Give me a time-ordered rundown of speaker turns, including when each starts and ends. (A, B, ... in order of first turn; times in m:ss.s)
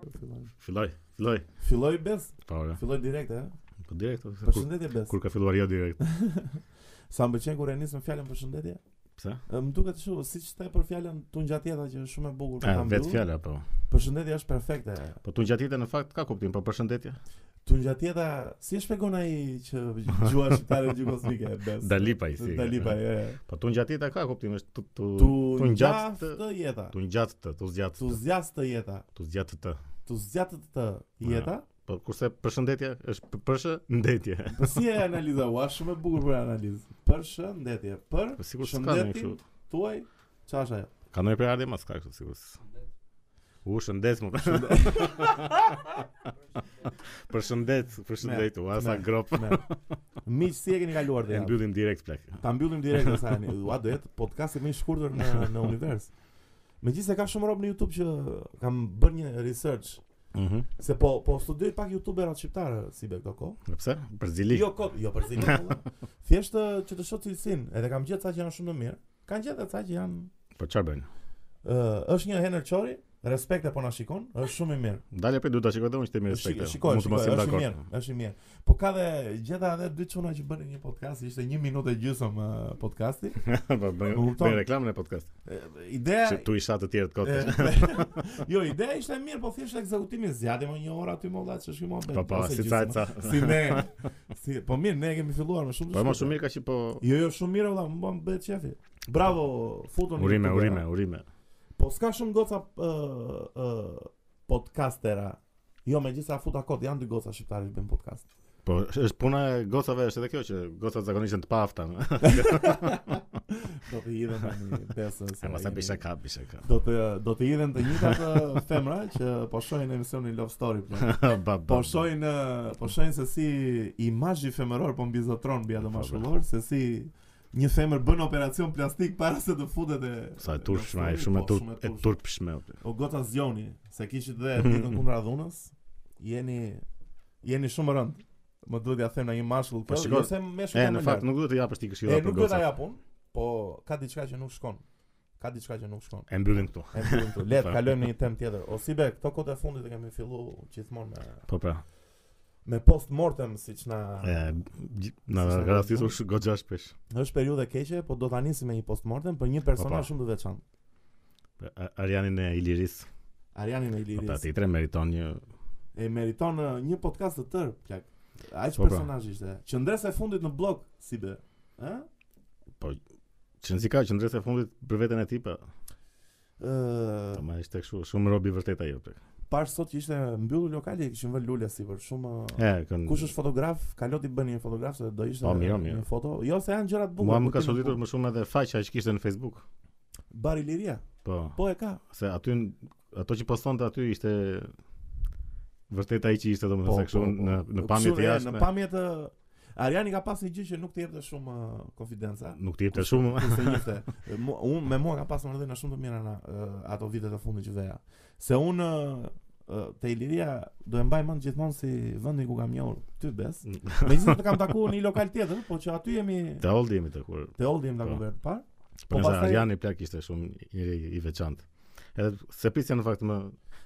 0:00.1-0:00.5 A
0:00.6-0:01.5 B
0:01.6-0:03.6 A
0:02.5-0:02.8 B
0:03.8-0:06.0 B
0:04.4-0:05.2 A
0:06.0-0:08.8 A
0:09.2-0:09.4 B
0:09.5-0:13.2 A
0:12.6-0:13.7 B
0:13.9-0:15.2 A
0:15.2-0:17.2 B
0:17.6-0:23.4 A
0:21.8-0:26.4 B
0:25.2-0:27.0 A
0:26.9-0:28.2 B
0:28.0-0:29.0 A
0:29.2-0:29.8 B
0:30.1-0:31.7 A
0:31.2-0:34.8 B
0:34.5-0:40.9 A
0:38.4-0:39.4 B
0:41.1-0:42.6 B
0:43.6-0:45.8 B
0:44.4-0:45.8 A
0:47.1-0:50.0 B
0:48.2-0:49.7 A
0:50.2-0:51.6 A
0:51.2-0:53.2 B
0:52.4-0:56.1 A
0:56.8-1:00.0 A
1:00.3-1:00.7 B
1:00.8-1:03.6 A
1:03.7-1:04.7 B
1:04.5-1:10.3 A
1:05.4-1:05.8 B
1:10.6-1:11.1 B
1:11.6-1:15.0 A
1:15.1-1:17.8 B
1:16.3-1:23.5 A
1:23.4-1:25.3 B
1:24.1-1:24.7 A
1:25.4-1:26.5 A
1:26.2-1:28.2 B
1:27.2-1:36.4 A
1:32.1-1:33.9 B
1:35.9-1:37.0 B
1:37.0-1:40.9 A
1:40.2-1:41.2 B
1:41.8-1:48.3 A
1:48.6-1:53.2 B
1:52.2-1:56.0 A
1:55.4-1:56.6 B
1:56.6-2:12.2 A
2:01.0-2:02.1 B
2:05.8-2:06.2 B
2:10.4-2:12.8 B
2:12.8-2:16.8 A
2:14.6-2:15.0 B
2:17.4-2:21.3 A
2:19.9-2:22.7 B
2:22.0-2:24.8 A
2:25.4-2:31.5 A
2:26.3-2:27.8 B
2:31.5-2:31.8 B
2:32.6-2:34.6 A
2:34.2-2:37.0 B
2:35.3-2:36.2 A
2:37.1-2:40.6 A
2:39.8-2:40.1 B
2:41.6-2:43.1 B
2:43.6-2:44.4 A
2:44.1-2:45.4 B
2:46.0-2:52.1 A
2:48.8-2:49.1 B
2:53.6-2:55.6 B
2:56.6-2:57.4 A
2:57.4-2:59.2 B
2:59.5-3:08.0 A
3:02.6-3:03.3 B
3:05.4-3:06.0 B
3:07.2-3:09.7 B
3:10.3-3:12.0 A
3:11.2-3:14.7 B
3:15.9-3:18.7 B
3:16.8-3:36.7 A
3:22.6-3:23.8 B
3:33.7-3:34.4 B
3:36.6-3:38.2 B
3:37.6-3:39.7 A
3:39.1-3:43.6 B